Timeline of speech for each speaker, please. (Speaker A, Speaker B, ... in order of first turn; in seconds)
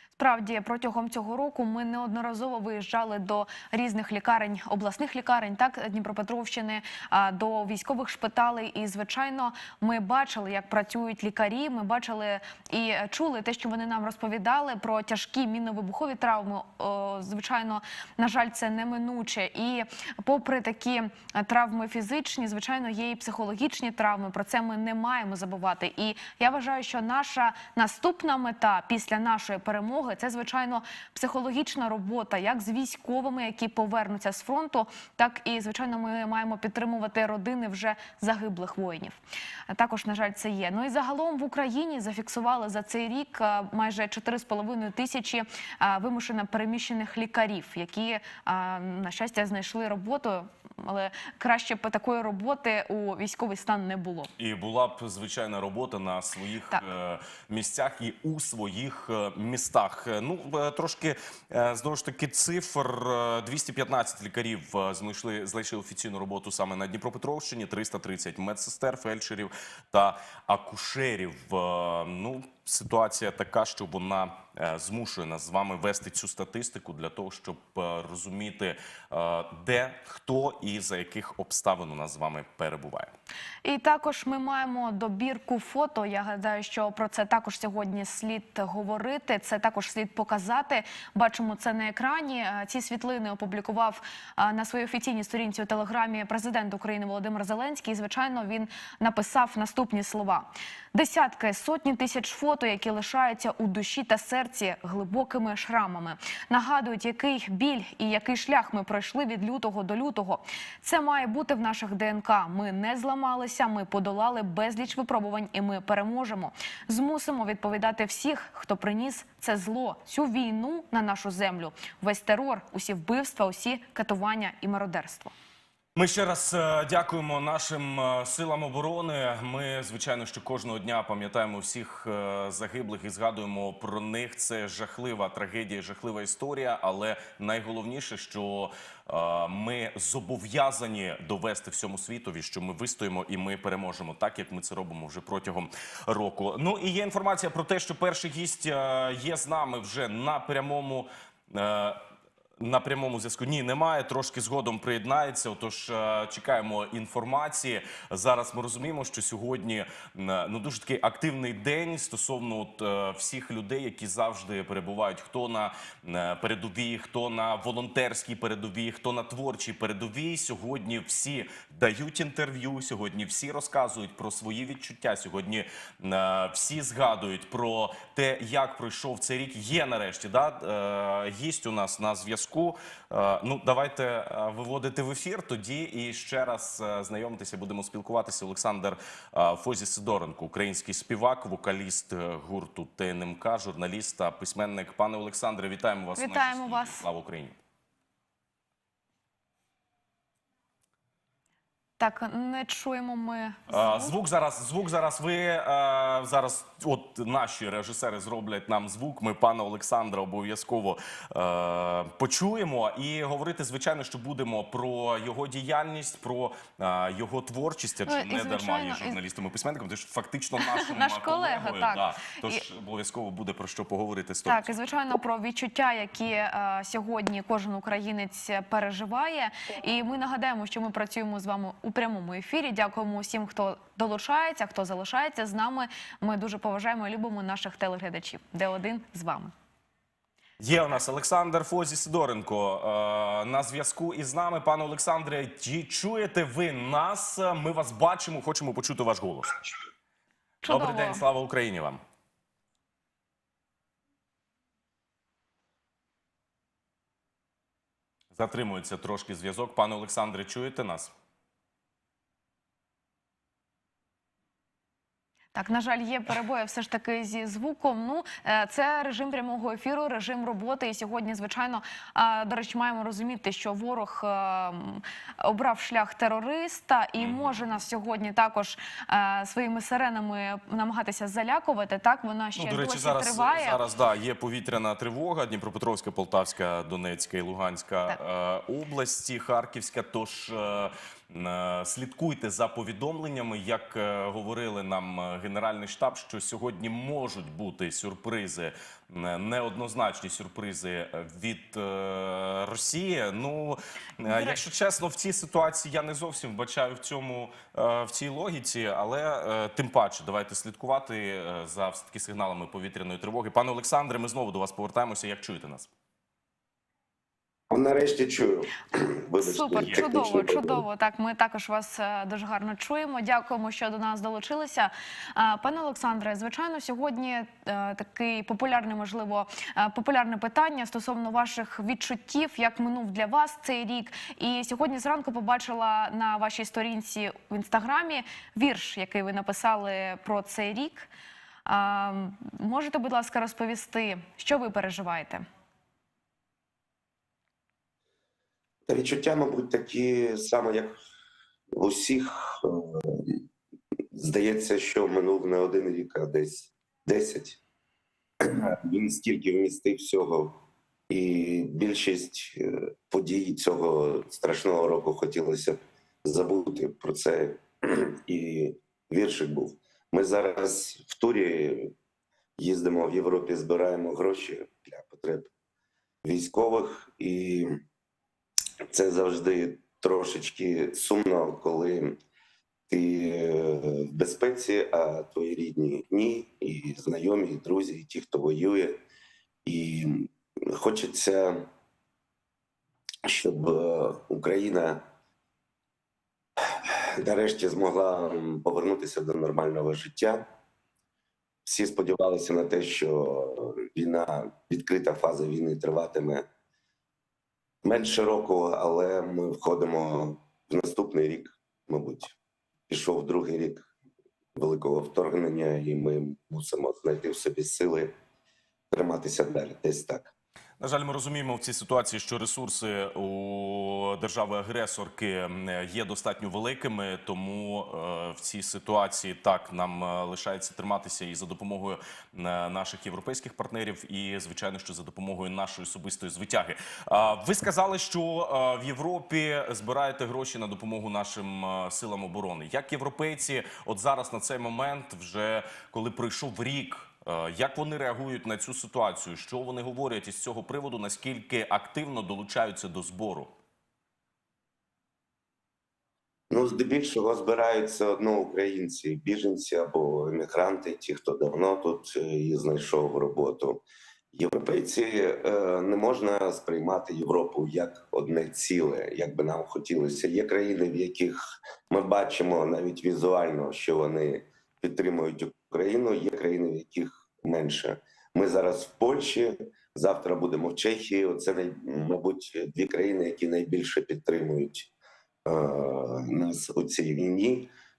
Speaker A: 0.1-39.2, 39.7-54.3, 83.6-125.3, 196.2-197.0, 202.0-204.1, 218.1-219.2, 220.6-222.6, 224.4-239.5, 250.6-251.2, 265.5-283.8, 304.3-304.6, 319.4-341.1, 341.6-345.4
Speaker B: 54.4-83.1, 125.9-152.0, 152.6-197.6, 203.7-224.8, 240.6-249.6, 250.7-252.0, 258.3-261.1, 277.2-277.5, 282.6-315.9, 420.8-453.5
Speaker C: 317.7-320.8, 348.9-350.9, 351.7-353.4, 354.1-357.6, 358.4-371.9, 372.6-375.5, 376.2-377.7, 378.9-382.2, 382.9-389.0, 389.6-391.7, 393.2-395.1, 396.6-400.4, 401.6-406.4, 407.8-412.3, 412.9-413.9, 414.5-418.1, 418.9-420.3, 456.5-484.9, 485.4-487.7